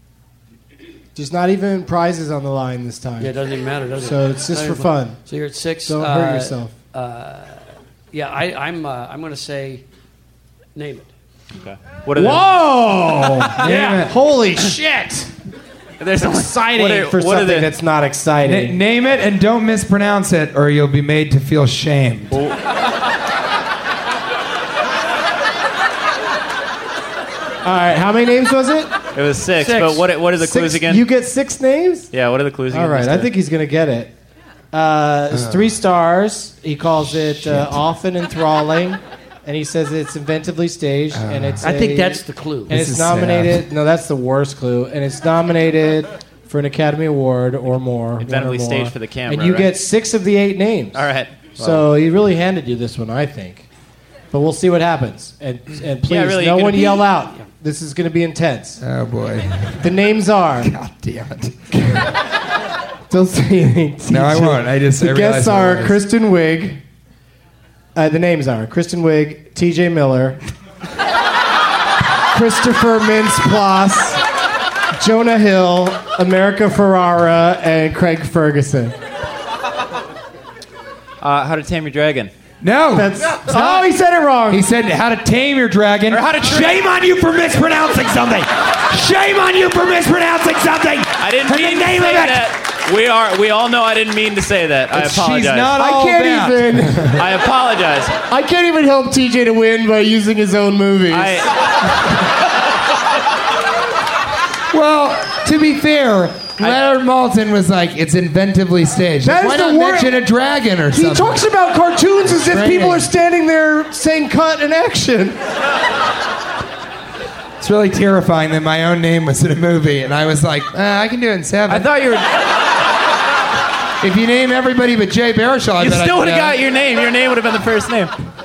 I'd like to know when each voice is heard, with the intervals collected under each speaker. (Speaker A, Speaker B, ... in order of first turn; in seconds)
Speaker A: 1.1-3.3, 4.0-5.2, 5.8-6.7, 12.2-15.3, 16.2-18.8, 27.6-28.9, 30.4-32.1, 32.7-34.1, 34.7-53.7, 54.3-58.8, 59.8-60.7, 61.7-62.1, 63.1-66.8, 67.9-70.4, 72.3-74.2, 75.0-78.9, 82.9-84.6, 95.7-97.2, 98.3-101.5, 109.2-110.2, 110.9-115.4
Speaker B: 3.2-9.8, 10.7-11.1, 13.7-14.1, 29.6-30.1, 41.6-42.7
Speaker C: 11.6-12.5, 16.0-17.7, 22.3-22.6, 29.1-31.0, 32.1-33.3, 48.2-49.7, 50.9-51.9, 56.1-57.1, 81.2-82.3, 86.1-86.8, 91.2-95.7, 97.1-98.1, 101.1-101.5, 121.7-122.3, 125.8-128.1
Speaker D: 13.6-14.1, 18.4-22.4, 35.3-35.7, 37.3-37.8, 41.1-41.7, 42.7-43.7, 58.8-60.0, 60.6-62.1, 64.1-66.0, 82.6-83.9, 84.5-92.5, 94.9-97.3, 104.7-111.4, 112.2-113.1, 117.6-121.9, 124.0-126.6